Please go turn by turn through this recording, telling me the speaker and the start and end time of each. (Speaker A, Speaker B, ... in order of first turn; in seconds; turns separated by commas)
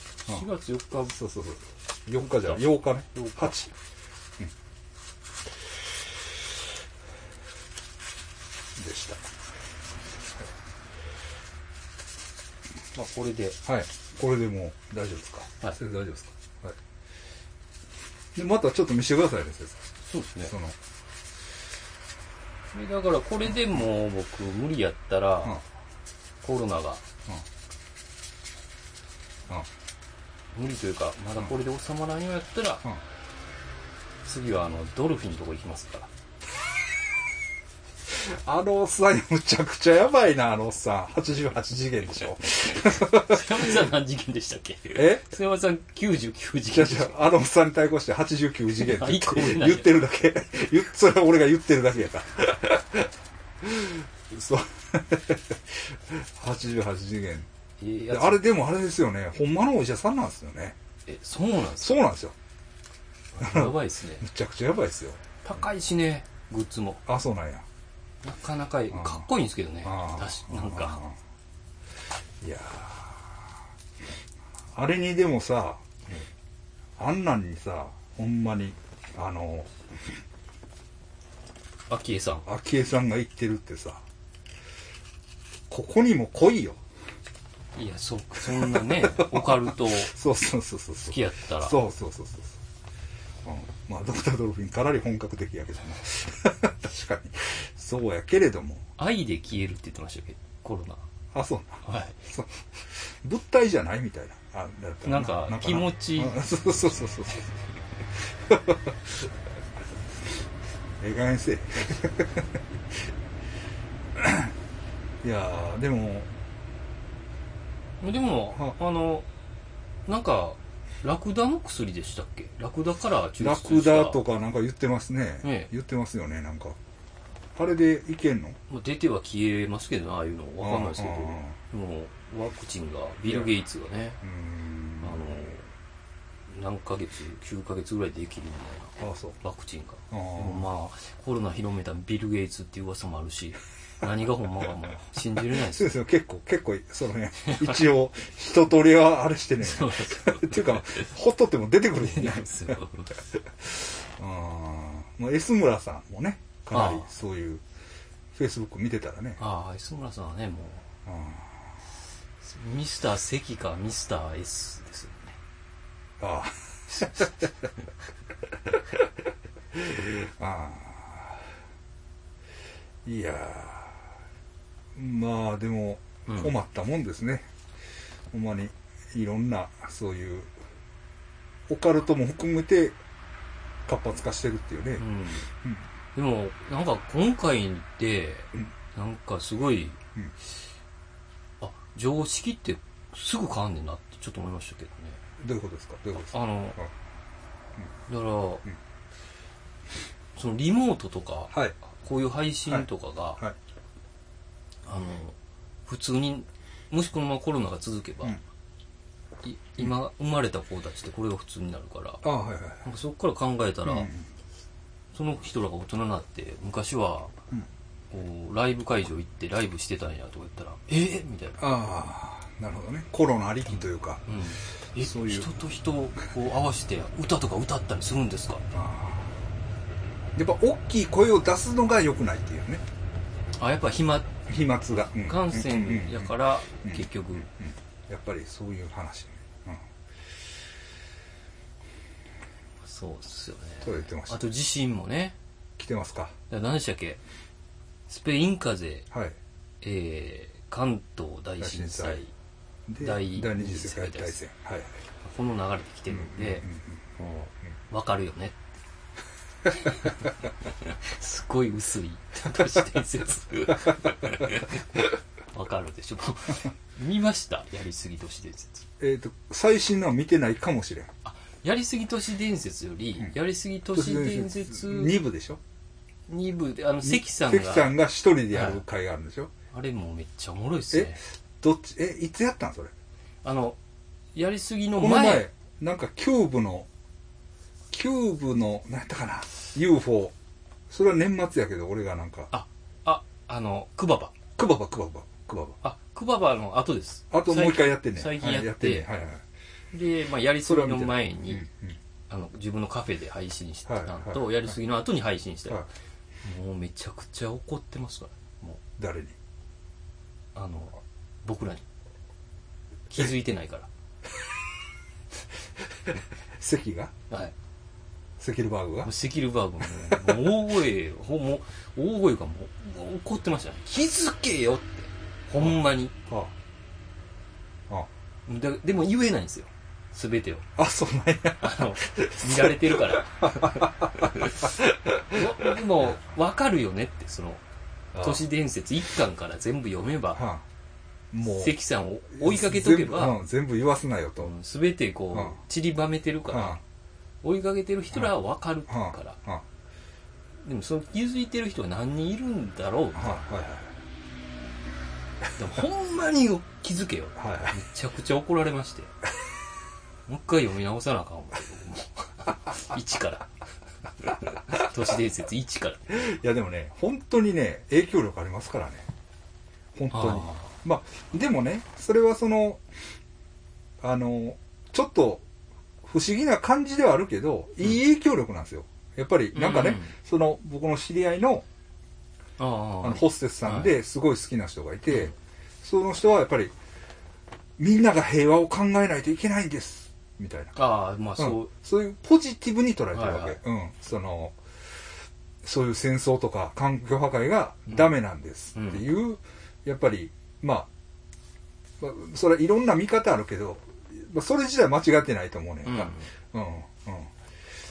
Speaker A: 0.3-1.2, Speaker B: 1.1-3.7, Speaker A: 2.2-3.7, Speaker B: 8.8-9.2, Speaker A: 12.9-13.6, Speaker B: 13.6-16.8, Speaker B: 18.3-19.8, Speaker A: 20.1-20.5, Speaker B: 20.5-20.8, Speaker A: 22.7-25.6, Speaker A: 26.4-27.0, Speaker A: 30.5-32.9, Speaker A: 34.2-36.1, Speaker B: 38.1-43.5, Speaker A: 42.8-47.1, Speaker B: 44.9-45.2, Speaker B: 46.7-53.1, Speaker A: 48.7-50.0, Speaker B: 53.6-57.5, Speaker A: 57.8-58.4, Speaker B: 58.1-60.8, Speaker A: 61.1-62.0, Speaker B: 61.8-62.3, Speaker A: 63.3-64.2, Speaker B: 63.4-65.2, Speaker A: 65.4-67.0, Speaker B: 67.1-67.6, Speaker A: 68.2-71.0, Speaker B: 68.9-69.2, Speaker B: 69.8-71.1, Speaker B: 72.4-73.4, Speaker B: 74.7-75.8, Speaker B: 77.0-79.7, Speaker A: 81.9-82.5, Speaker B: 82.5-84.0, Speaker B: 85.7-86.8, Speaker A: 87.8-90.1, Speaker B: 88.5-92.6, Speaker A: 91.1-91.8, Speaker B: 93.4-98.8, Speaker A: 99.0-101.0, Speaker B: 101.3-107.5, Speaker A: 101.8-102.2, Speaker A: 105.0-106.4, Speaker B: 108.5-109.0, Speaker B: 111.0-112.6, Speaker B: 114.2-114.5, Speaker B: 115.2-116.3, Speaker A: 118.0-119.3, Speaker A: 120.1-124.2, Speaker B: 123.4-126.8, Speaker A: 125.4-125.7, Speaker B: 127.5-128.6, Speaker A: 128.7-134.2, Speaker B: 130.6-131.6, Speaker B: 134.2-135.4, Speaker A: 135.0-135.6, Speaker A: 136.5-145.9, Speaker B: 139.0-139.4, Speaker B: 140.1-140.7, Speaker B: 145.5-152.8, Speaker A: 147.4-147.7, Speaker A: 149.6-151.1, Speaker A: 151.9-153.2, Speaker B: 153.6-157.6, Speaker A: 156.7-157.1, Speaker B: 158.3-159.4, Speaker A: 159.4-160.8, Speaker B: 161.1-161.5, Speaker A: 162.4-165.4, Speaker B: 166.2-167.5, Speaker B: 169.7-171.4, Speaker B: 173.0-174.0, Speaker B: 174.9-177.5, Speaker A: 176.3-176.5, Speaker B: 178.3-180.5, Speaker B: 181.7-183.0, Speaker B: 183.9-185.0, Speaker A: 185.0-185.5, Speaker A: 186.1-190.0, Speaker A: 191.6-195.2, Speaker B: 195.4-196.9, Speaker A: 196.3-196.8, Speaker A: 198.1-198.6, Speaker A: 200.3-203.4, Speaker A: 204.8-205.3, Speaker A: 205.9-208.4, Speaker A: 209.4-212.2, Speaker B: 212.2-212.8, Speaker A: 212.8-214.1, Speaker B: 213.8-214.2, Speaker A: 215.1-217.3, Speaker A: 218.1-221.6, Speaker B: 221.6-224.2, Speaker A: 223.7-228.6, Speaker B: 225.0-225.5, Speaker B: 228.7-229.3, Speaker B: 230.3-232.8, Speaker A: 233.6-234.3, Speaker B: 234.5-239.8, Speaker A: 235.2-237.5, Speaker A: 242.8-245.3, Speaker B: 243.8-244.4, Speaker B: 245.8-246.3, Speaker A: 246.5-247.2, Speaker A: 248.1-249.1, Speaker B: 249.1-249.3, Speaker A: 249.8-252.3, Speaker B: 251.6-252.2, Speaker B: 252.9-254.9, Speaker A: 253.0-254.4, Speaker A: 255.2-258.6, Speaker B: 256.1-257.0, Speaker A: 259.7-264.8, Speaker A: 265.5-268.9, Speaker B: 269.0-271.1, Speaker A: 271.2-275.2, Speaker B: 273.9-275.6, Speaker A: 276.3-277.9, Speaker B: 277.0-279.5, Speaker A: 278.5-278.8, Speaker A: 279.7-281.2, Speaker B: 280.9-282.9, Speaker A: 283.4-283.8, Speaker A: 284.3-285.5, Speaker B: 285.0-286.9, Speaker B: 287.9-290.3, Speaker B: 290.9-292.5, Speaker A: 292.5-294.4, Speaker B: 294.6-295.8, Speaker A: 295.8-299.1, Speaker B: 297.3-299.4, Speaker A: 299.9-301.6, Speaker B: 300.6-302.0, Speaker A: 302.3-305.8, Speaker B: 303.9-304.4, Speaker A: 306.4-308.8, Speaker B: 309.0-309.3, Speaker A: 310.5-311.8, Speaker A: 313.1-313.9, Speaker B: 316.6-317.1, Speaker B: 318.4-319.1, Speaker A: 319.0-326.1, Speaker B: 325.6-326.5, Speaker A: 328.4-330.6, Speaker B: 330.8-335.7, Speaker A: 331.6-334.7, Speaker A: 335.3-337.6, Speaker B: 338.1-338.4, Speaker A: 338.1-340.4, Speaker B: 340.4-340.6, Speaker B: 341.3-341.8, Speaker A: 341.4-343.4, Speaker B: 342.3-344.5, Speaker A: 344.4-346.8, Speaker B: 346.5-346.8, Speaker A: 347.4-349.4, Speaker B: 348.9-349.6, Speaker A: 350.6-353.5, Speaker B: 353.1-353.9, Speaker A: 355.6-359.1, Speaker B: 357.4-357.7, Speaker A: 360.3-363.5, Speaker A: 364.2-366.2, Speaker B: 366.1-369.1, Speaker B: 369.9-372.8, Speaker A: 370.1-370.7, Speaker B: 374.0-375.4, Speaker B: 376.0-381.6, Speaker A: 379.5-380.1, Speaker A: 382.6-383.9, Speaker B: 383.0-386.7, Speaker B: 387.8-390.8, Speaker A: 390.8-391.7, Speaker B: 391.4-394.6, Speaker A: 393.1-393.6, Speaker B: 395.6-400.9, Speaker A: 398.7-399.1, Speaker B: 402.0-407.3, Speaker A: 405.8-406.3